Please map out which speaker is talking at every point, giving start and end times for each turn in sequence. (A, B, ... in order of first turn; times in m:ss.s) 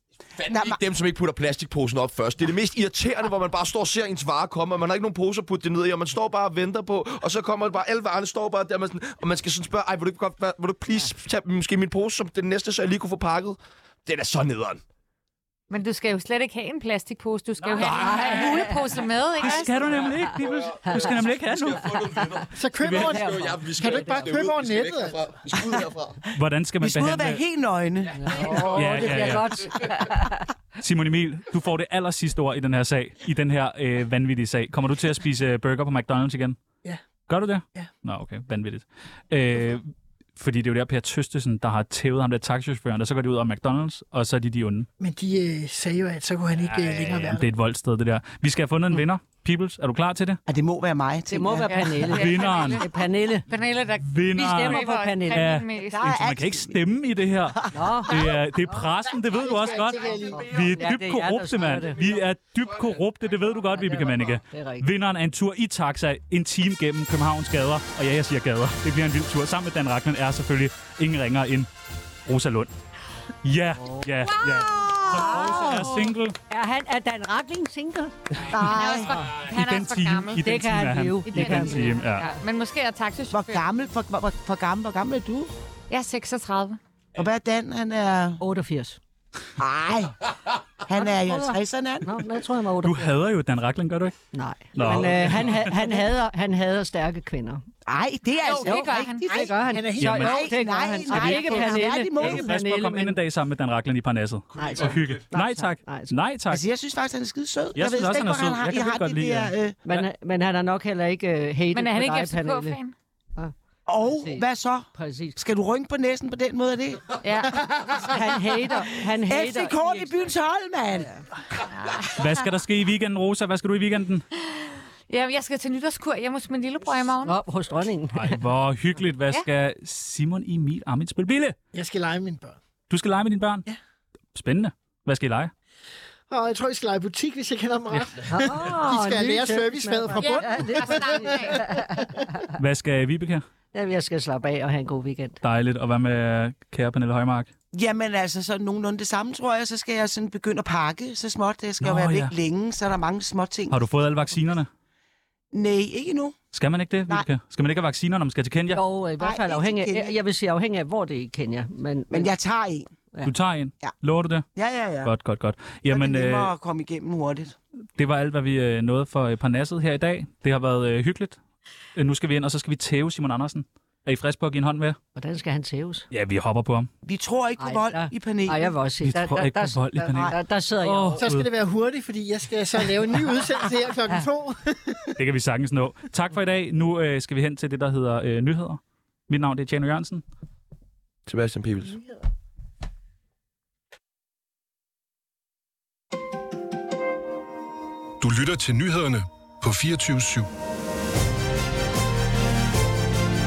0:00.4-0:14.8 A
0:00.5-0:00.8 B
0:15.7-0:19.7 C
0:17.8-0:18.7 A
0:17.9-0:18.5 D
0:19.4-0:22.0 E
0:19.5-0:26.2 A
0:20.9-0:21.1 D
0:22.0-0:22.4 D
0:22.5-0:25.3 F
0:22.9-0:24.3 D
0:26.3-0:27.4 E
0:26.8-0:28.5 B
0:28.2-0:30.5 D
0:28.4-0:29.8 E
0:30.8-0:36.6 E
0:37.3-0:39.9 E
0:40.4-0:44.9 E
0:45.0-0:47.5 F
0:46.9-0:50.4 E
0:50.5-0:52.1 B
0:51.3-0:53.5 D
0:51.7-0:56.1 C
0:52.1-0:52.8 E
0:54.0-1:11.7 E
0:54.3-0:55.5 D
0:55.9-0:56.8 B
0:57.6-0:58.3 B
0:57.7-0:58.8 D
0:59.7-1:02.2 D
1:03.7-1:04.9 D
1:12.3-1:12.7 E
1:13.4-1:16.4 E
1:13.8-1:18.6 D
1:18.5-1:19.2 B
1:18.6-1:20.5 C
1:19.1-1:22.2 E
1:20.4-1:22.4 D
1:21.3-1:23.6 C
1:23.3-1:25.5 B
1:25.9-1:26.8 C
1:27.2-1:28.4 B
1:28.4-1:29.0 D
1:29.6-1:30.3 B
1:30.8-1:32.2 B
1:31.2-1:33.1 D
1:32.8-1:34.2 E
1:34.3-1:37.6 D
1:34.7-1:35.7 E
1:37.9-1:39.6 B
1:38.4-1:39.3 C
1:38.6-1:43.2 D
1:39.4-1:40.5 F
1:40.0-1:40.4 E
1:40.1-1:42.5 B
1:42.2-1:46.6 E
1:44.6-1:46.1 D
1:46.5-1:49.8 B
1:47.8-1:50.1 E
1:49.8-1:52.8 D
1:51.7-1:52.9 C
1:53.9-1:58.2 B
1:54.1-1:55.4 D
1:57.2-1:57.6 C
1:58.0-2:00.3 D
1:58.8-2:01.1 B
2:00.9-2:01.2 D
2:01.7-2:02.5 C
2:02.1-2:04.2 E
2:04.4-2:07.4 C
2:07.2-2:08.4 D
2:08.1-2:11.6 E
2:11.7-2:12.6 F
2:12.9-2:13.7 E
2:14.4-2:15.5 E
2:16.3-2:22.2 F
2:18.3-2:22.5 D
2:20.2-2:21.6 C
2:22.6-2:23.4 E
2:23.7-2:25.4 D
2:25.4-2:27.5 E
2:27.7-2:33.8 B
2:31.8-2:32.3 E
2:33.7-2:34.7 E
2:35.5-2:36.4 B
2:36.5-2:38.8 E
2:38.7-2:42.3 D
2:39.2-2:40.1 B
2:42.1-2:42.9 B
2:43.2-2:44.4 E
2:44.6-2:45.1 B
2:45.0-2:46.5 E
2:45.9-2:47.6 B
2:48.0-2:51.4 E
2:52.0-2:55.0 E
2:55.2-2:56.0 D
2:56.1-2:56.9 E
2:57.0-2:58.7 B
2:57.6-3:01.2 D
2:59.0-3:01.5 E
3:01.2-3:05.2 F
3:05.2-3:10.2 E
3:11.3-3:12.0 A
3:18.2-3:20.5 G